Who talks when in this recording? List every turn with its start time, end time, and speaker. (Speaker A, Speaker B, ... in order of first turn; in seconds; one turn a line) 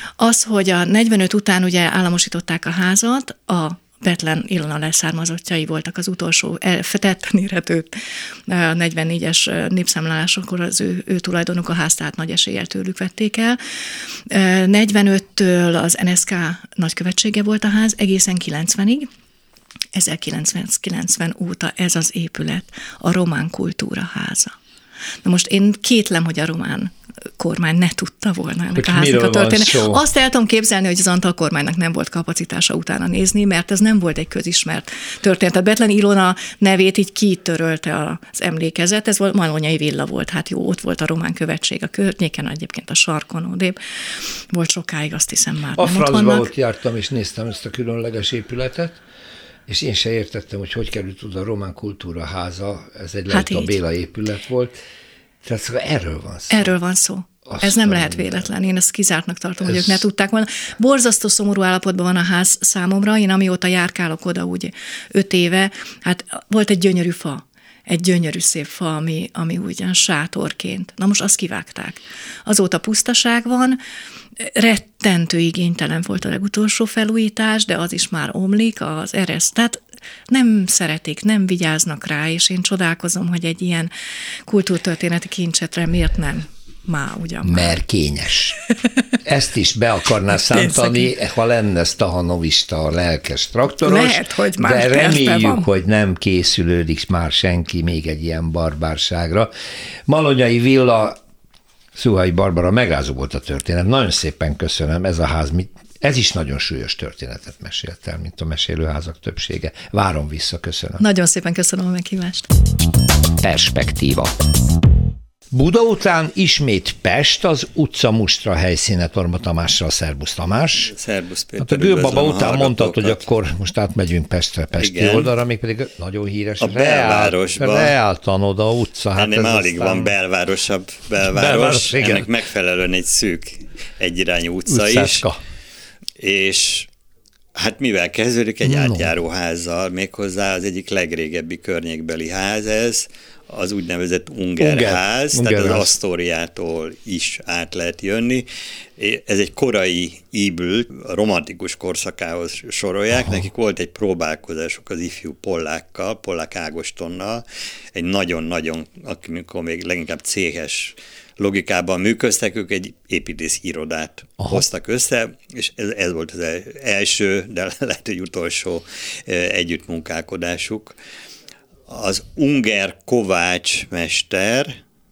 Speaker A: 0.2-13.6
Speaker A: 14.3-19.1
Speaker A: 19.9-24.5
Speaker A: 25.2-46.5
Speaker B: 28.7-30.0
Speaker B: 45.8-49.0
Speaker B: 49.7-54.8
Speaker A: 53.3-53.8
Speaker B: 55.4-56.7
Speaker A: 56.5-73.8
Speaker B: 57.5-58.4
Speaker B: 59.6-60.0
Speaker A: 74.4-83.9
Speaker A: 84.5-87.8
Speaker B: 87.4-88.6
Speaker B: 89.2-99.5
Speaker A: 90.5-91.1
Speaker A: 93.7-95.7
Speaker B: 100.1-101.2
Speaker B: 101.9-111.0
Speaker A: 111.0-112.5
Speaker B: 113.4-114.3
Speaker B: 115.5-120.9
Speaker C: 120.8-123.2
Speaker B: 121.6-130.1
Speaker C: 124.7-125.3
Speaker C: 126.6-127.9
Speaker C: 129.1-135.3
Speaker B: 131.2-132.3
Speaker B: 134.7-135.4
Speaker C: 136.2-136.9
Speaker C: 137.5-170.9
Speaker B: 138.6-139.1
Speaker B: 144.6-146.0
Speaker B: 153.2-153.5
Speaker C: 171.9-174.8